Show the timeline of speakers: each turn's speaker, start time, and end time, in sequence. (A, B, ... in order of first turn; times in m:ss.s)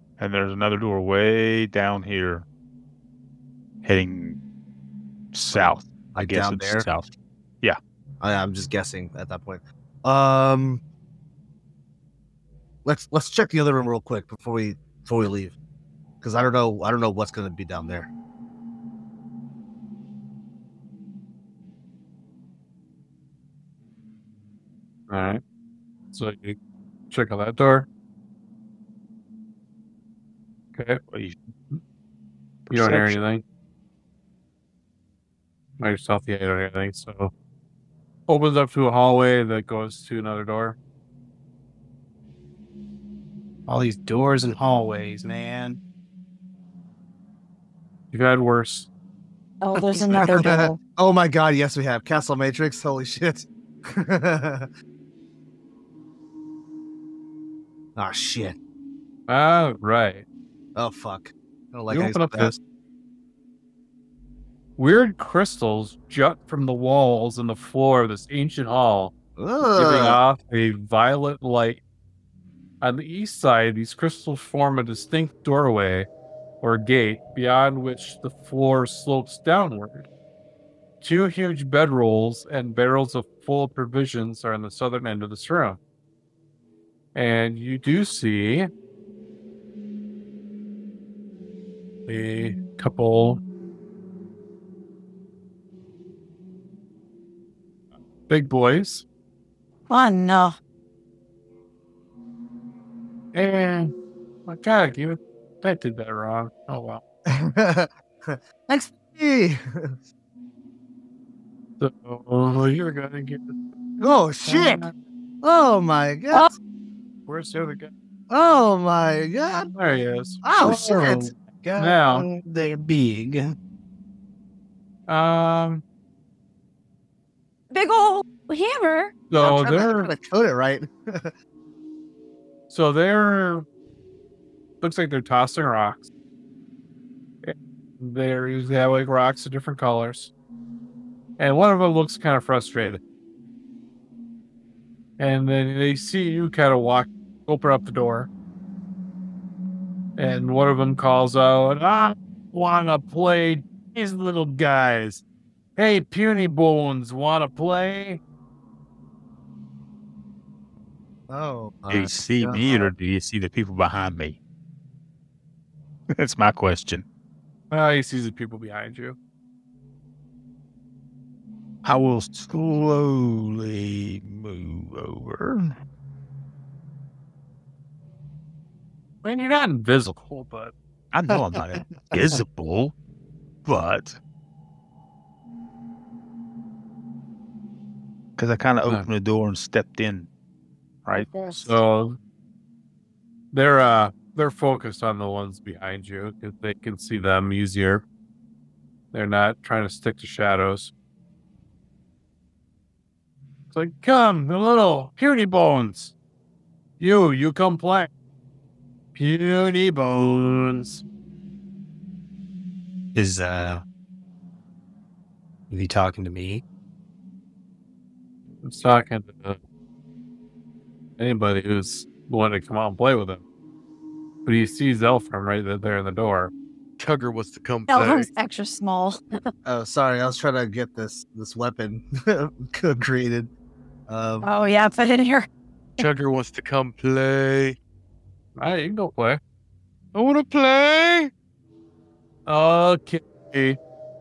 0:00.2-0:02.5 A
0:03.8-0:04.4 A
0:05.3-0:07.1 A
0:05.5-0:06.9 B
0:08.2-0:10.8 B
0:12.8-0:15.6 B
0:16.2-0:18.1 B
0:25.1-0:25.4 C
0:26.1-0:26.6 C
0:27.1-0:27.9 C
0:30.8-0:31.0 C
0:31.1-0:31.4 A
0:32.7-0:33.2 A
0:32.7-0:33.4 C
0:35.8-0:37.3 C
0:38.3-0:40.8 C
0:43.7-0:45.8 D
0:48.1-0:48.9 C
0:49.6-0:50.8 E
0:49.8-0:50.5 C
0:50.2-0:54.7 B
0:58.0-0:58.6 B
0:59.3-1:00.2 C
1:00.8-1:02.6 B
1:01.9-1:02.6 C
1:04.8-1:09.1 C
1:09.4-1:10.2 B
1:09.7-1:11.8 C
1:12.8-1:16.1 C
1:16.6-1:20.1 C
1:21.0-1:25.8 C
1:27.2-1:28.7 C
1:32.1-1:33.4 C
1:38.3-1:39.0 C
1:39.9-1:40.6 E
1:43.3-1:43.9 C
1:44.5-1:47.0 C
1:47.3-1:50.0 B
1:51.8-1:54.9 C
1:54.0-1:54.8 B
1:55.4-1:56.5 B
1:57.3-1:57.9 C
1:58.3-1:59.7 B
1:59.7-2:01.0 C
2:00.4-2:01.3 B
2:00.6-2:03.6 D
2:01.8-2:02.3 C
2:05.1-2:05.8 C
2:07.7-2:09.1 E
2:09.3-2:10.1 C
2:09.4-2:11.3 B
2:12.7-2:13.7 C
2:14.8-2:16.1 C
2:17.4-2:20.3 C
2:21.4-2:23.0 C
2:25.2-2:28.3 C
2:30.2-2:35.2 C
2:35.8-2:38.2 C
2:41.3-2:42.9 B
2:41.9-2:44.4 A
2:46.1-2:47.0 A
2:47.7-2:49.2 C
2:51.8-2:55.8 A
2:59.2-3:00.7 C
3:01.1-3:03.0 A
3:03.6-3:04.2 A
3:08.4-3:10.3 A
3:11.0-3:11.8 A
3:11.4-3:12.2 C
3:13.5-3:18.0 C
3:19.1-3:20.9 C
3:23.7-3:26.1 C
3:27.0-3:28.1 C
3:29.2-3:31.0 C
3:33.2-3:33.8 D
3:35.7-3:36.6 D
3:38.6-3:39.6 C
3:41.2-3:43.4 C
3:44.4-3:46.5 C
3:47.0-3:48.3 F
3:47.9-3:49.5 E
3:49.6-3:53.5 B
3:54.1-3:54.5 B
3:54.4-3:56.1 E
3:56.0-3:57.8 F
3:58.6-3:59.4 C
4:00.1-4:01.3 F
4:02.5-4:03.8 C